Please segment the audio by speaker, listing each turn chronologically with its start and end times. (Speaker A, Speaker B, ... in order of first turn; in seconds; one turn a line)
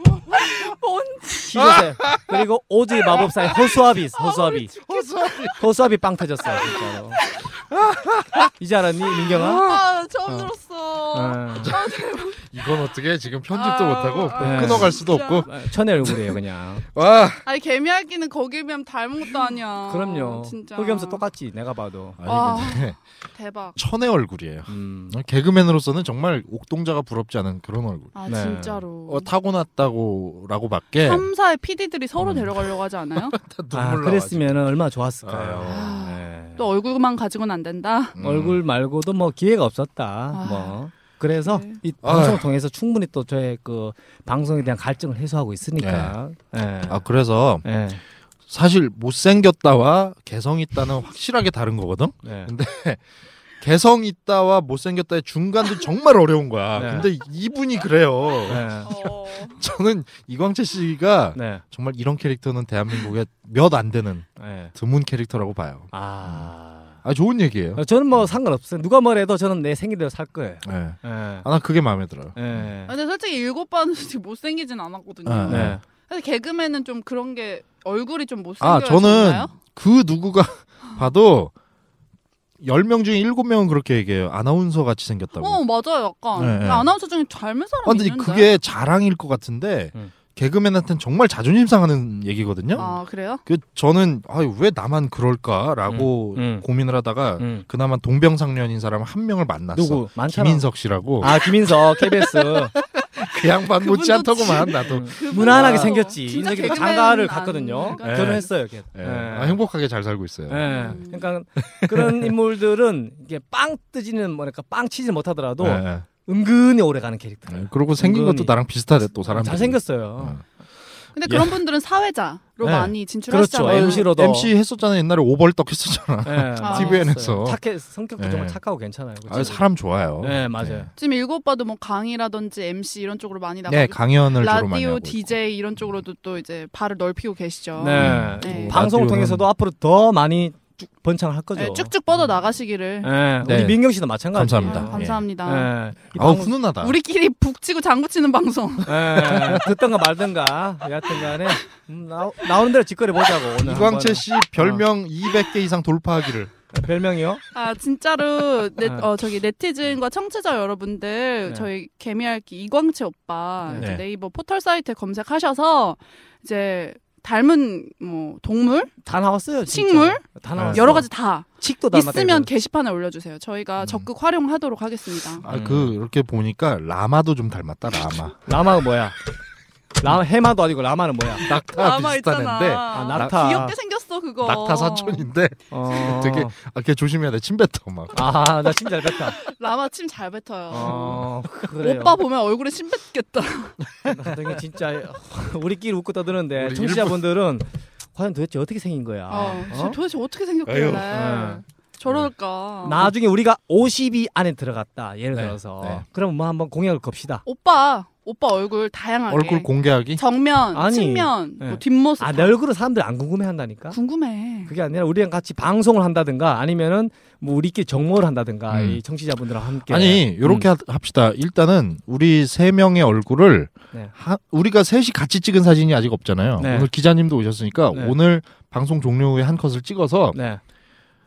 Speaker A: 0.2-1.7
Speaker B: 1.4-4.7
Speaker C: 1.6-2.4
Speaker A: 4.1-5.0
Speaker C: 4.8-5.6
Speaker B: 5.5-7.2
Speaker A: 6.7-7.5
Speaker C: 7.7-8.5
Speaker B: 8.6-9.7
Speaker A: 9.2-12.5
Speaker C: 9.3-9.8
Speaker B: 11.1-11.8
Speaker C: 11.6-15.5
Speaker A: 13.5-15.5
Speaker B: 14.4-16.8
Speaker C: 16.0-16.4
Speaker C: 16.9-17.4
Speaker A: 17.4-21.2
Speaker B: 19.9-22.2
Speaker C: 22.2-23.0
Speaker A: 22.2-23.8
Speaker C: 23.8-28.1
Speaker B: 24.7-25.2
Speaker A: 28.1-29.3
Speaker B: 28.3-28.8
Speaker C: 29.1-31.3
Speaker A: 31.0-33.4
Speaker C: 32.2-34.6
Speaker B: 33.7-36.6
Speaker C: 35.2-36.0
Speaker A: 35.6-38.1
Speaker C: 38.1-38.6
Speaker B: 38.2-47.0
Speaker A: 40.3-40.8
Speaker A: 41.4-41.8
Speaker C: 42.0-42.5
Speaker C: 45.8-46.1
Speaker C: 46.9-47.6
Speaker B: 47.6-48.0
Speaker C: 48.5-53.0
Speaker B: 52.2-52.5
Speaker C: 53.6-66.5
Speaker B: 56.7-57.1
Speaker B: 58.5-58.9
Speaker A: 58.8-59.6
Speaker B: 61.3-61.6
Speaker B: 64.4-64.7
Speaker B: 65.9-67.0
Speaker C: 67.0-67.8
Speaker B: 67.8-71.5
Speaker C: 70.6-72.7
Speaker B: 72.3-72.9
Speaker A: 72.9-79.5
Speaker C: 75.2-75.8
Speaker B: 75.5-75.8
Speaker C: 78.6-81.5
Speaker C: 82.6-85.6
Speaker A: 85.4-88.5
Speaker C: 86.3-86.9
Speaker C: 87.8-92.8
Speaker A: 92.8-93.4
Speaker C: 93.5-106.0
Speaker B: 95.9-96.6
Speaker B: 97.4-97.6
Speaker B: 99.7-100.7
Speaker B: 101.2-102.7
Speaker A: 103.8-108.5
Speaker B: 104.8-109.6
Speaker C: 108.0-110.9
Speaker B: 110.5-118.5
Speaker A: 110.6-111.3
Speaker C: 111.6-112.3
Speaker C: 115.6-116.0
Speaker C: 117.5-120.4
Speaker B: 119.3-120.4
Speaker A: 121.1-124.1
Speaker C: 121.3-121.5
Speaker C: 122.6-122.9
Speaker B: 123.3-124.5
Speaker C: 123.6-127.6
Speaker B: 126.2-129.6
Speaker A: 126.6-127.1
Speaker C: 128.2-128.6
Speaker C: 129.3-130.9
Speaker B: 130.2-130.9
Speaker A: 131.0-138.8
Speaker C: 133.7-135.3
Speaker B: 137.8-141.9
Speaker C: 138.0-139.5
Speaker A: 141.5-143.1
Speaker B: 143.0-146.5
Speaker C: 143.4-145.2
Speaker A: 144.6-145.7
Speaker C: 146.1-146.9
Speaker A: 146.8-149.3
Speaker B: 148.8-154.8
Speaker C: 149.3-149.6
Speaker C: 153.6-156.5
Speaker B: 156.7-157.4
Speaker A: 157.5-169.0
Speaker B: 163.7-163.9
Speaker C: 163.8-164.0
Speaker B: 169.0-172.5
Speaker A: 169.7-175.4
Speaker C: 170.6-170.9
Speaker C: 173.8-174.1
Speaker C: 175.4-178.4
Speaker B: 175.5-175.9
Speaker B: 178.4-179.2
Speaker B: 180.0-181.5
Speaker C: 181.4-183.4
Speaker A: 181.6-185.3
Speaker B: 182.9-183.7
Speaker C: 184.4-188.5
Speaker B: 185.7-186.5
Speaker B: 188.1-189.4
Speaker A: 189.2-193.8
Speaker B: 190.7-192.2
Speaker B: 194.1-200.0
Speaker C: 196.6-197.2
Speaker A: 199.3-203.1
Speaker C: 200.7-201.1
Speaker B: 201.1-201.6
Speaker B: 202.8-207.4
Speaker C: 205.3-206.0
Speaker A: 207.4-212.6
Speaker C: 209.3-210.2
Speaker B: 210.7-214.0
Speaker A: 213.9-214.7
Speaker B: 214.7-220.7
Speaker C: 218.7-219.0
Speaker C: 219.9-230.4
Speaker B: 226.6-226.9
Speaker B: 230.3-230.6